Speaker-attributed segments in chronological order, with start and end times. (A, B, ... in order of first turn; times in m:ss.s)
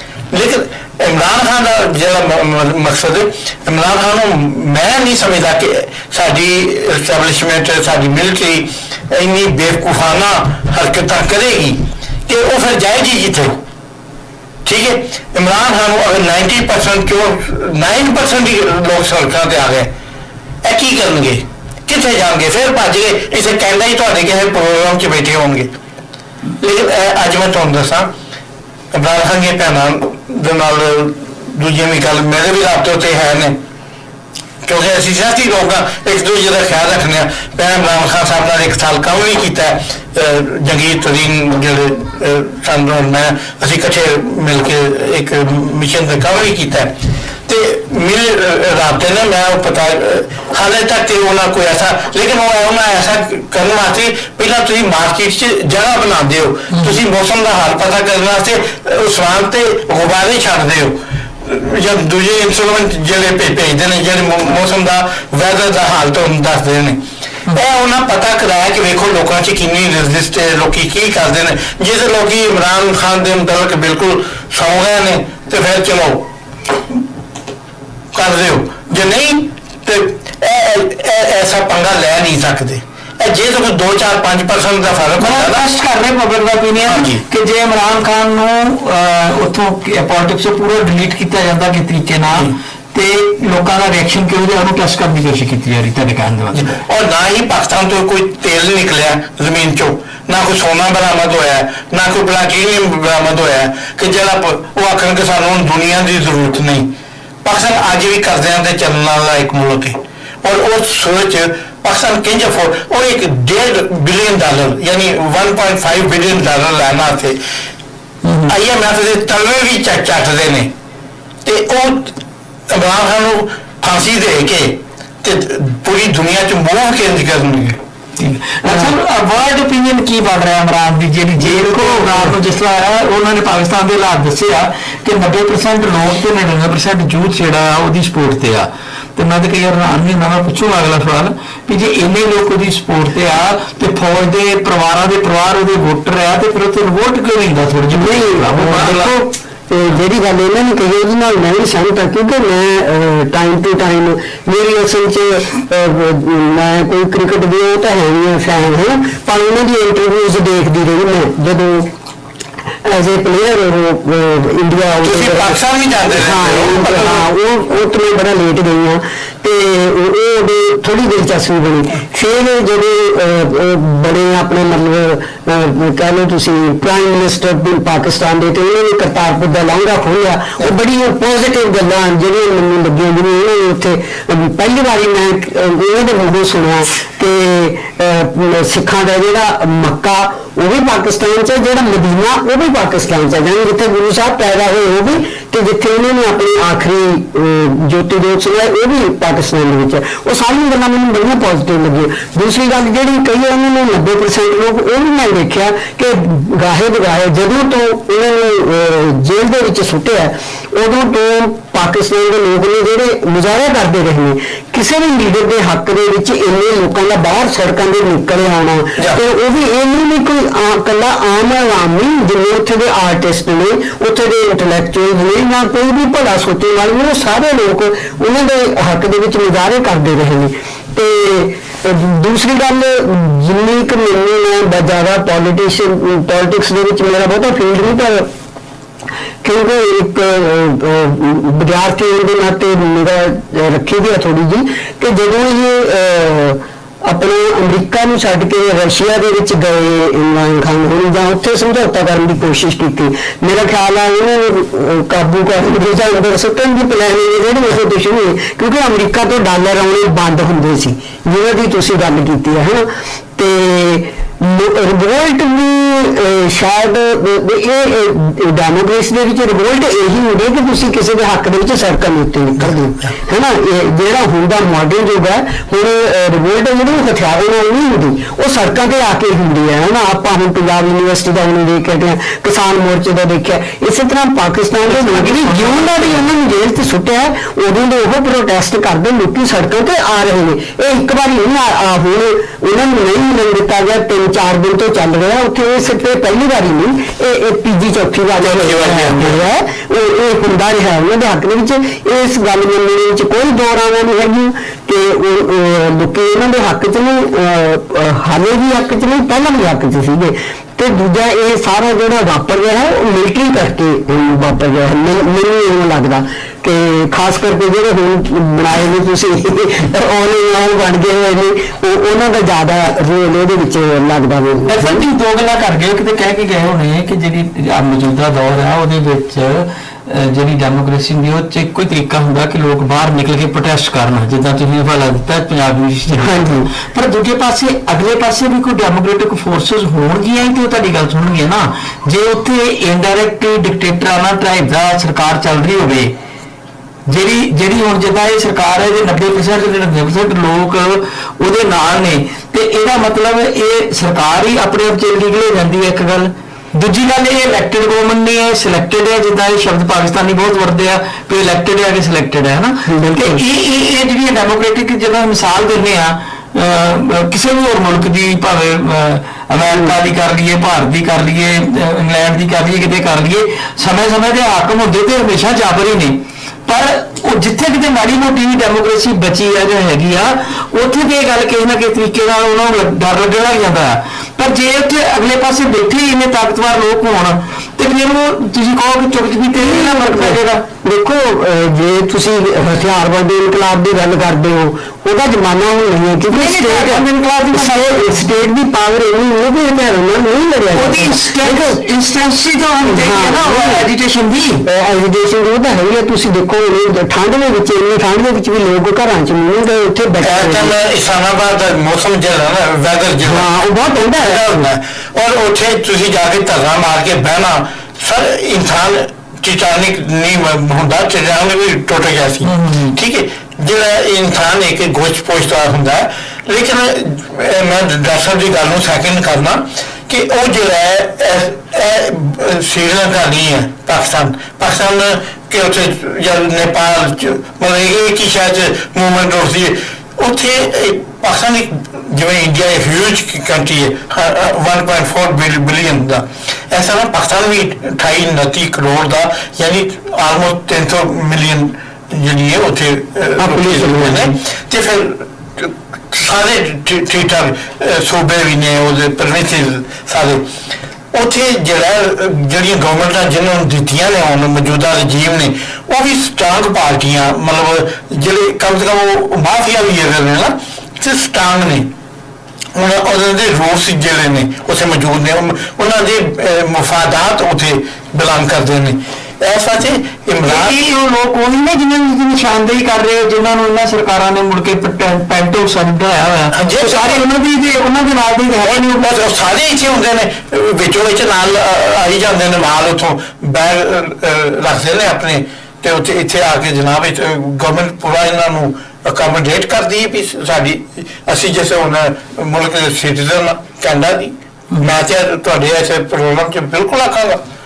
0:00.3-0:13.5 A
0:14.6-0:19.9 A
0:20.6-0:25.7 A
0:26.6-0:28.1 A
0:28.9-0:33.6 A
0:34.6-0:46.9 A
0:47.4-1:16.3 A
1:18.1-1:25.6 A
1:25.2-1:36.7 B
1:26.8-1:27.2 A
1:36.5-1:46.9 A
1:47.4-1:57.4 A
1:58.2-1:58.5 B
1:58.5-2:00.7 A
2:01.4-2:02.2 A
2:02.7-2:07.8 A
2:08.2-2:29.0 B
2:11.4-2:12.3 C
2:28.0-2:41.9 C
2:42.8-3:58.3 C
2:45.0-2:47.3 A
3:59.4-5:25.0 C
4:44.8-4:46.2 B
4:58.4-4:59.4 A
5:24.7-5:46.1 B
5:36.2-5:36.7 C
5:47.1-6:30.6 B
6:02.9-6:03.4 C
6:29.6-6:41.8 C
6:36.3-6:38.2 B
6:40.7-6:44.6 B
6:42.8-6:43.8 C
6:44.6-6:50.7 C
6:50.2-6:53.5 A
6:53.2-6:54.6 C
6:54.1-7:40.5 A
7:02.4-7:03.0 B
7:33.4-7:34.4 C
7:41.1-7:51.9 A
7:52.7-8:00.8 A
8:00.4-8:09.1 B
8:06.5-8:07.2 A
8:08.6-8:27.4 A